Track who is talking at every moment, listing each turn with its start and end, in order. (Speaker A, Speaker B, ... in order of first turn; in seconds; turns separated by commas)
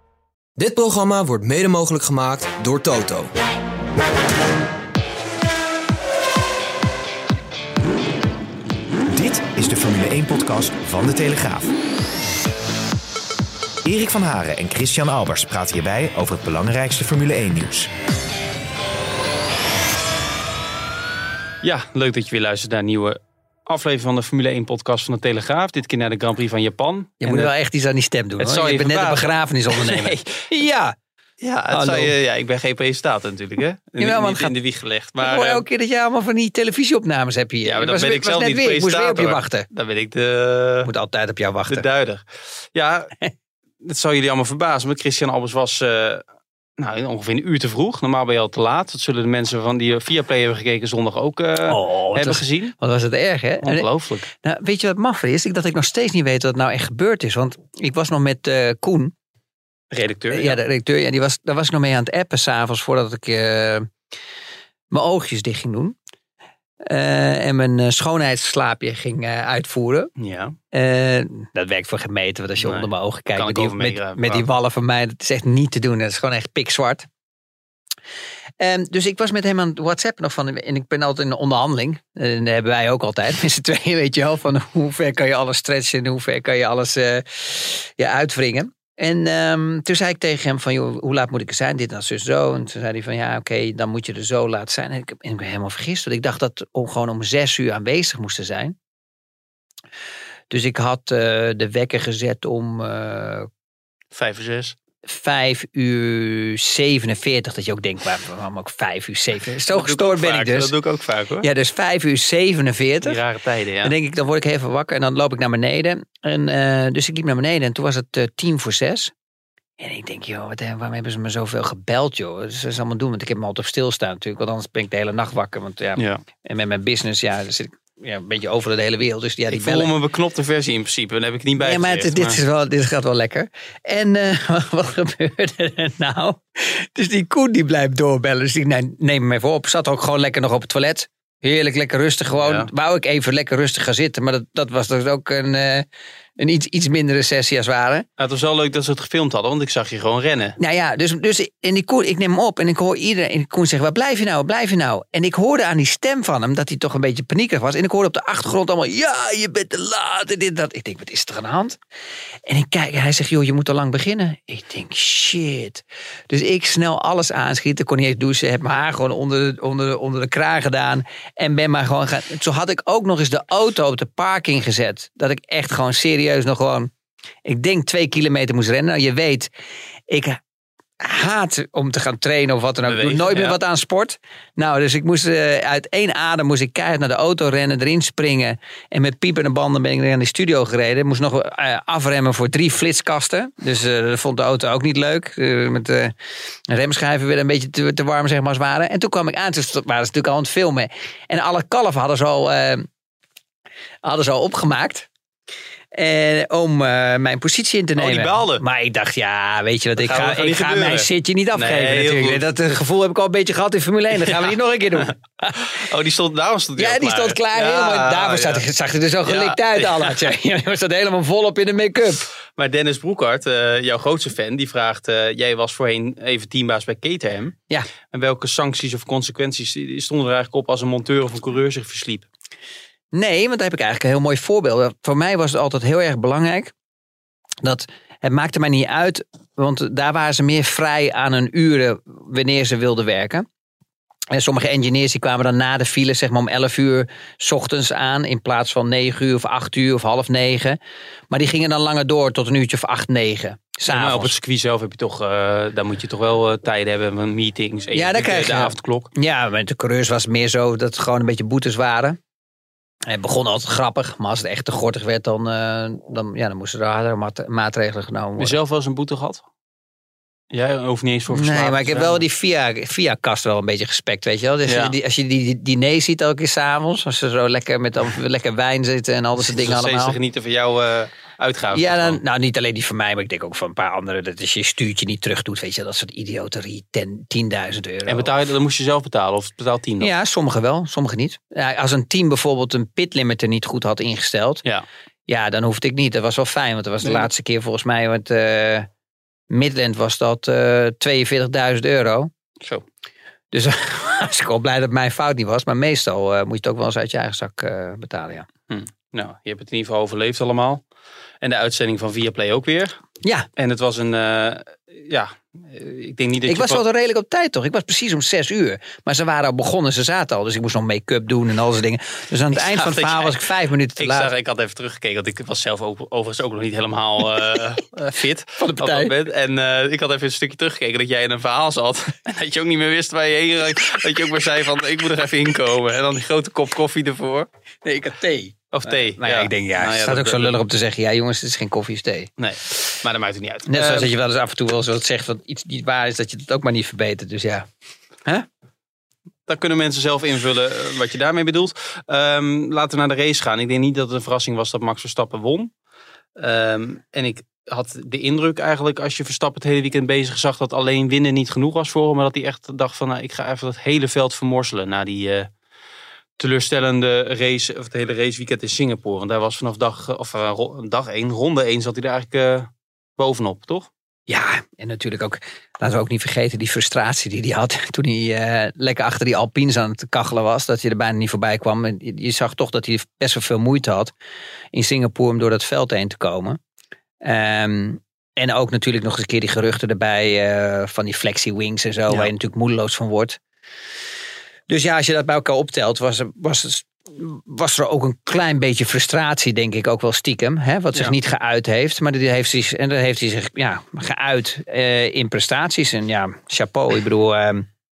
Speaker A: 0.6-3.3, Speaker B: 9.1-11.8, Speaker B: 13.8-17.9, Speaker C: 21.6-27.5, Speaker D: 27.2-31.0, Speaker C: 28.4-30.4, Speaker C: 31.4-35.6, Speaker D: 31.7-32.1, Speaker D: 34.0-34.5, Speaker D: 35.2-39.7, Speaker C: 37.6-40.9, Speaker D: 40.8-41.9, Speaker C: 41.7-43.1, Speaker C: 43.8-46.2, Speaker C: 46.8-52.7, Speaker D: 51.7-59.1, Speaker C: 53.6-54.3, Speaker C: 59.9-60.6, Speaker D: 60.3-63.9, Speaker D: 64.9-66.0, Speaker D: 66.8-70.1, Speaker C: 70.2-70.6, Speaker D: 70.7-77.1, Speaker C: 72.6-74.5, Speaker D: 78.6-98.8, Speaker D: 100.5-103.5, Speaker C: 104.1-104.8, Speaker D: 105.0-110.7, Speaker C: 109.7-111.5, Speaker D: 111.4-113.2, Speaker C: 113.0-113.9, Speaker D: 113.8-119.1, Speaker D: 119.8-129.9, Speaker C: 126.0-126.2, Speaker C: 129.5-132.4, Speaker D: 131.6-145.8, Speaker C: 142.4-142.7, Speaker D: 146.4-148.1, Speaker C: 148.2-150.6, Speaker D: 150.6-161.8, Speaker D: 162.5-176.9, Speaker D: 177.4-179.5, Speaker D: 180.1-180.4, Speaker D: 181.0-196.1, Speaker C: 182.8-183.6, Speaker D: 196.7-202.9, Speaker D: 204.0-205.1, Speaker D: 205.9-215.6, Speaker C: 208.0-208.6, Speaker C: 210.0-212.4, Speaker C: 215.0-218.6, Speaker D: 216.8-222.2, Speaker C: 219.2-220.2, Speaker C: 222.6-227.6, Speaker C: 228.1-232.3, Speaker D: 233.1-236.7, Speaker D: 237.6-243.4, Speaker D: 244.3-250.8, Speaker D: 251.3-254.3, Speaker C: 253.9-259.1, Speaker D: 257.9-262.2, Speaker D: 263.1-268.6, Speaker C: 268.4-269.4, Speaker C: 270.5-272.2, Speaker D: 271.3-280.2, Speaker C: 274.6-274.9, Speaker C: 279.4-282.2, Speaker D: 281.7-288.3, Speaker C: 288.1-290.1, Speaker D: 290.0-294.6, Speaker D: 295.3-298.9, Speaker D: 299.5-302.3, Speaker D: 303.5-308.5, Speaker C: 308.7-310.8, Speaker C: 311.4-313.0, Speaker D: 313.2-313.5, Speaker C: 313.6-316.8, Speaker D: 316.5-324.3, Speaker C: 322.5-323.4, Speaker C: 324.0-337.5, Speaker D: 328.6-329.1, Speaker D: 337.8-342.3, Speaker C: 338.7-340.6, Speaker C: 342.4-344.1, Speaker D: 343.7-347.7, Speaker C: 349.5-355.7, Speaker C: 356.4-365.5, Speaker C: 366.4-373.9, Speaker D: 374.3-384.1, Speaker D: 384.7-386.6, Speaker D: 387.2-393.4, Speaker D: 394.7-407.7